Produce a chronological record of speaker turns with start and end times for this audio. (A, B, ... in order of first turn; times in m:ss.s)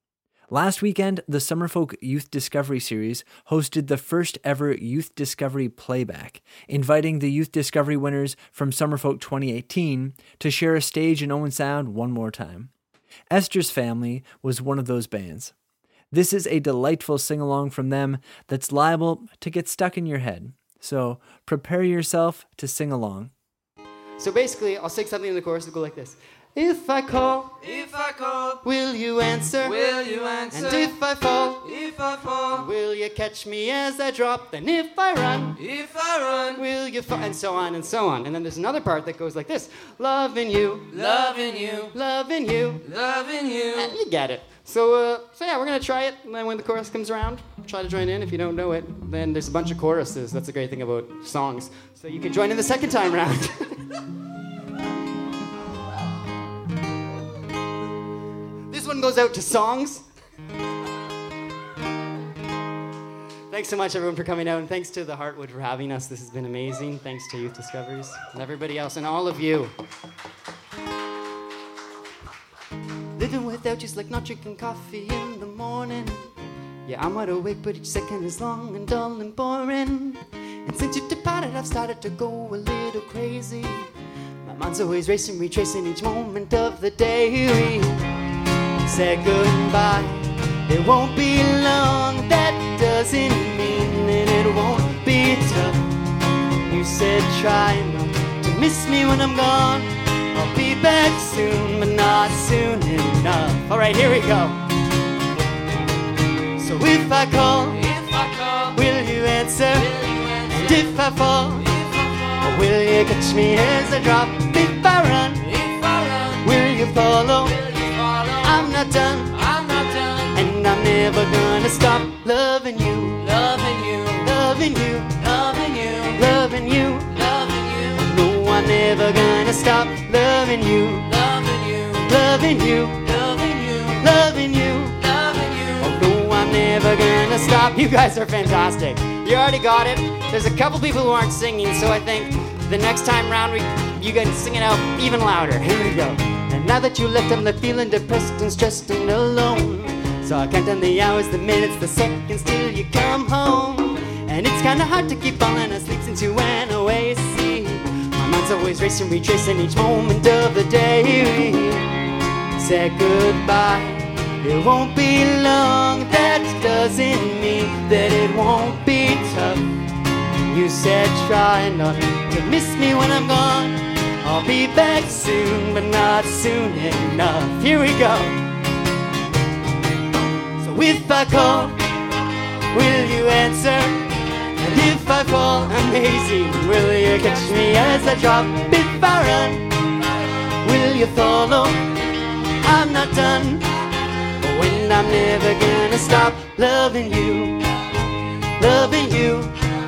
0:00.5-0:12.7 A
0:13.3-0:15.5 A
0:16.1-0:23.3 A
0:24.2-0:27.6 B
0:27.7-0:28.6 C
0:28.6-0:31.8 B
0:29.7-0:30.9 C
0:31.7-0:32.6 C
0:32.5-0:35.7 B
0:35.7-0:36.6 C
0:36.5-0:42.9 B
0:41.0-0:41.9 C
0:42.9-0:43.9 C
0:43.7-0:53.8 B
0:58.7-1:00.1 B
1:03.5-1:09.7 B
1:13.2-1:16.2 B
1:16.9-1:23.9 B
1:24.4-1:27.9 B
1:28.8-1:30.2 B
1:30.7-1:35.8 B
1:36.7-1:44.6 B
1:46.6-1:47.9 B
1:47.9-1:48.7 C
1:48.7-1:51.7 B
1:52.4-1:55.4 B
1:55.6-1:56.2 C
1:56.4-1:57.6 B
1:57.8-1:58.2 C
1:58.4-1:59.4 B
1:59.4-2:00.3 C
2:00.3-2:03.3 B
2:03.3-2:04.2 C
2:04.2-2:05.2 B
2:05.3-2:06.1 C
2:06.1-2:07.2 B
2:07.3-2:07.9 C
2:07.9-2:11.2 B
2:11.3-2:12.0 C
2:12.0-2:13.1 B
2:13.1-2:14.0 C
2:14.0-2:15.0 B
2:15.1-2:15.9 C
2:15.8-2:41.9 B
2:42.6-2:49.7 B
2:50.5-2:58.4 B
3:00.6-3:01.8 B
3:02.7-3:04.0 B
3:04.6-3:09.7 B
3:10.6-3:11.9 B
3:12.6-3:13.7 B
3:14.4-3:17.6 B
3:18.6-3:19.5 B